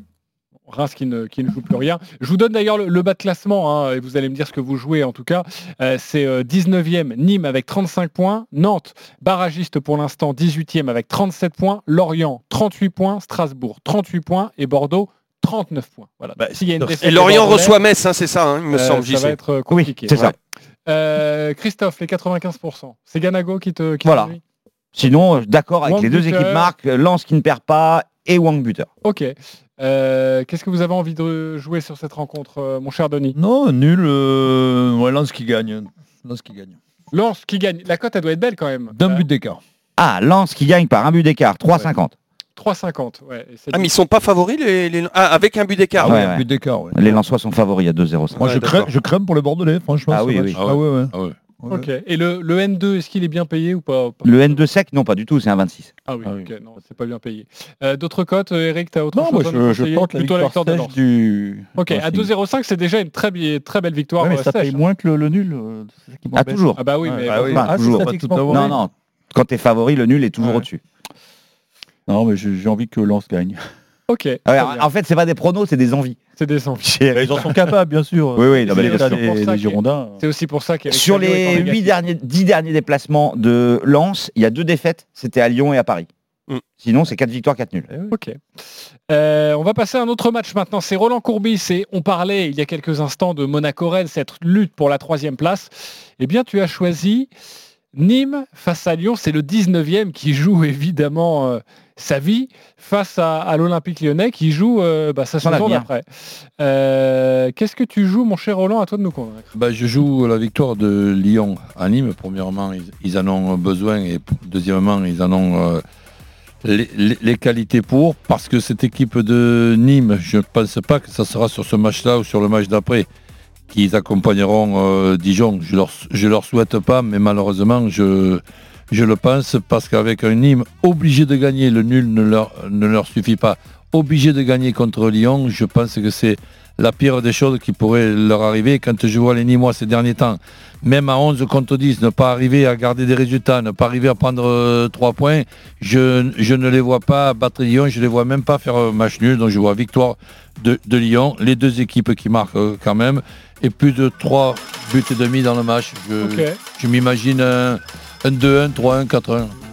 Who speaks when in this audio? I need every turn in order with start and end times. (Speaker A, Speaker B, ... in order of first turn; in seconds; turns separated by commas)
Speaker A: 0.7-17.8, Speaker B: 16.4-17.6, Speaker C: 17.0-19.4, Speaker A: 18.7-20.2, Speaker D: 19.7-20.4, Speaker A: 20.9-24.4, Speaker D: 24.0-24.3, Speaker D: 24.9-28.9, Speaker A: 25.8-26.7, Speaker A: 29.0-33.4, Speaker B: 33.4-36.8, Speaker A: 37.1-39.3, Speaker B: 38.9-39.6, Speaker D: 40.0-42.1, Speaker A: 42.6-43.9, Speaker C: 43.7-46.2, Speaker B: 46.0-47.2, Speaker D: 46.0-48.8, Speaker B: 48.4-51.9, Speaker C: 48.4-48.7, Speaker D: 50.1-50.6, Speaker E: 50.6-51.4, Speaker A: 51.7-54.6, Speaker D: 54.2-55.9, Speaker A: 56.1-61.0, Speaker F: 56.2-56.5, Speaker F: 59.1-62.3, Speaker A: 61.8-64.8, Speaker F: 64.2-68.8, Speaker D: 66.3-66.8, Speaker A: 66.8-67.8, Speaker B: 67.2-68.8, Speaker D: 67.4-70.8, Speaker F: 72.1-73.6, Speaker A: 74.1-74.8, Speaker D: 74.5-76.2, Speaker A: 76.4-76.9, Speaker D: 76.8-77.6, Speaker F: 77.1-80.2, Speaker D: 78.4-79.2, Speaker A: 78.7-82.0, Speaker D: 80.9-86.1, Speaker D: 86.8-87.9, Speaker A: 88.1-88.4, Speaker A: 89.1-97.3, Speaker A: 97.9-106.1, Speaker D: 105.4-105.9, Speaker A: 106.6-109.5, Speaker E: 109.5-115.8, Speaker E: 116.6-123.1, Speaker E: 123.7-159.5, Speaker A: 156.2-156.6